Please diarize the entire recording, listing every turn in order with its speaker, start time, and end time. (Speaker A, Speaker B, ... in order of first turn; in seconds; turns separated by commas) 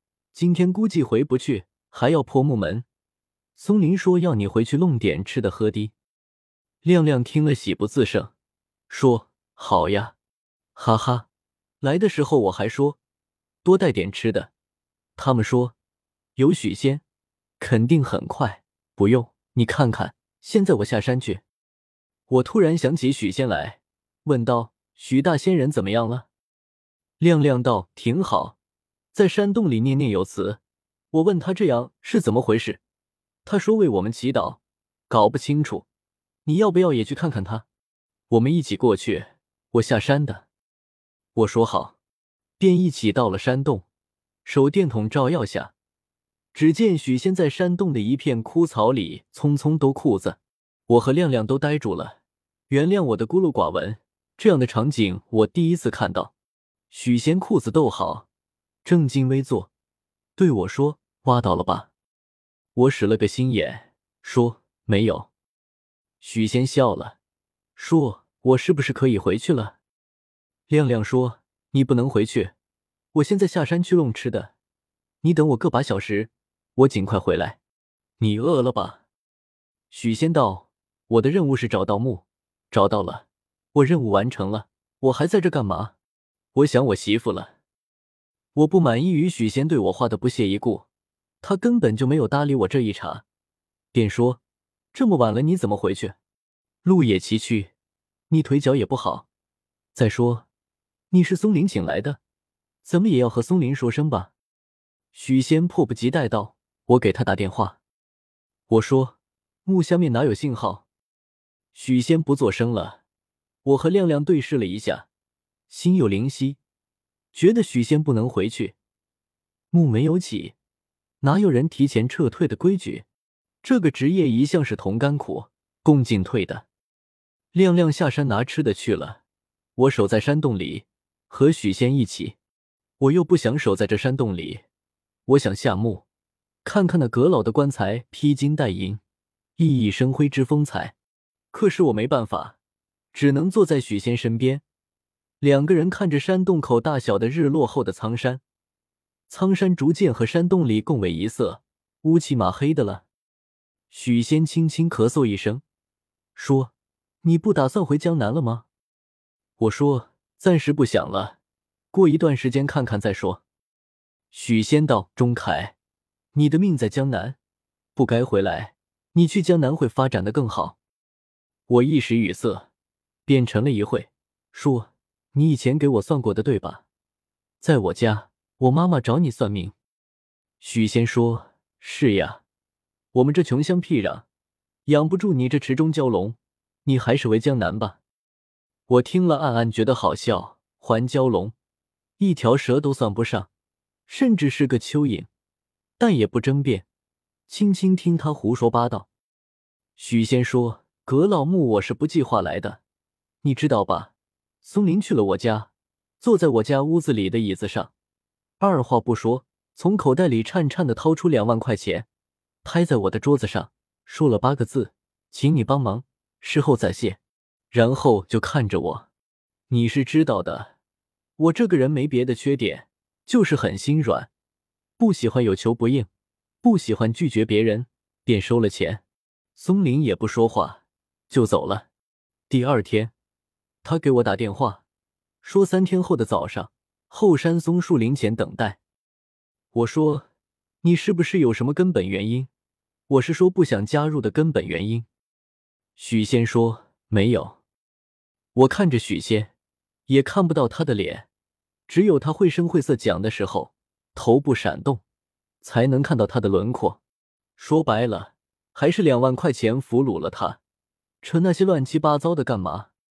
Speaker A: 0.3-2.9, Speaker A: 3.5-5.9, Speaker A: 6.8-8.3, Speaker A: 8.9-10.1, Speaker A: 10.8-11.3, Speaker A: 11.8-13.0, Speaker A: 13.6-14.5, Speaker A: 15.2-15.7, Speaker A: 16.4-17.0, Speaker A: 17.6-21.4, Speaker A: 22.3-26.3, Speaker A: 27.2-28.6, Speaker A: 29.1-30.6, Speaker A: 31.1-32.8, Speaker A: 33.4-35.9, Speaker A: 36.4-37.6, Speaker A: 38.3-40.5, Speaker A: 41.3-42.0, Speaker A: 42.6-43.8, Speaker A: 44.4-45.7, Speaker A: 46.5-52.2, Speaker A: 52.7-56.3, Speaker A: 56.9-58.3, Speaker A: 58.8-59.7, Speaker A: 60.4-61.9, Speaker A: 62.7-65.3, Speaker A: 66.2-67.2, Speaker A: 67.8-69.8, Speaker A: 70.7-72.5, Speaker A: 73.1-74.5, Speaker A: 75.2-77.6, Speaker A: 78.2-79.0, Speaker A: 79.9-85.9, Speaker A: 86.5-87.5, Speaker A: 88.5-90.9, Speaker A: 91.4-93.2, Speaker A: 93.9-94.4, Speaker A: 94.9-96.2, Speaker A: 96.8-97.7, Speaker A: 98.3-99.3, Speaker A: 99.9-100.5, Speaker A: 101.1-102.2, Speaker A: 102.8-104.3, Speaker A: 105.1-107.8, Speaker A: 108.7-110.8, Speaker A: 111.7-113.0, Speaker A: 113.6-115.1, Speaker A: 115.7-116.6, Speaker A: 117.3-118.8, Speaker A: 119.7-120.5, Speaker A: 121.2-123.0, Speaker A: 123.6-126.7, Speaker A: 127.5-129.2, Speaker A: 129.8-132.4, Speaker A: 133.0-134.6, Speaker A: 135.3-136.0, Speaker A: 136.6-139.0, Speaker A: 139.6-140.9, Speaker A: 141.5-142.6, Speaker A: 143.1-144.6, Speaker A: 145.4-148.4, Speaker A: 149.3-153.0, Speaker A: 153.9-155.6, Speaker A: 156.3-156.7, Speaker A: 157.2-158.7, Speaker A: 159.6-161.4, Speaker A: 161.9-163.4, Speaker A: 164.3-165.8, Speaker A: 166.3-167.4, Speaker A: 167.9-170.8, Speaker A: 171.7-172.7, Speaker A: 173.2-176.8, Speaker A: 177.6-179.7, Speaker A: 180.6-182.4, Speaker A: 183.1-184.2, Speaker A: 184.8-188.0, Speaker A: 188.9-191.5, Speaker A: 192.2-193.5, Speaker A: 194.1-195.3, Speaker A: 196.0-196.8, Speaker A: 197.5-199.1, Speaker A: 200.0-202.8, Speaker A: 203.4-205.7, Speaker A: 206.2-207.9, Speaker A: 208.6-212.1, Speaker A: 212.6-217.2, Speaker A: 217.7-219.1, Speaker A: 219.7-220.7, Speaker A: 221.4-224.3, Speaker A: 225.0-226.1, Speaker A: 226.6-229.0, Speaker A: 229.6-231.9, Speaker A: 232.5-233.1, Speaker A: 233.8-234.8, Speaker A: 235.4-238.8, Speaker A: 239.7-240.3, Speaker A: 240.8-242.5, Speaker A: 243.1-245.1, Speaker A: 246.0-247.6, Speaker A: 248.5-249.5, Speaker A: 250.1-251.3, Speaker A: 251.9-255.0, Speaker A: 255.6-257.0, Speaker A: 257.6-260.6, Speaker A: 261.2-262.9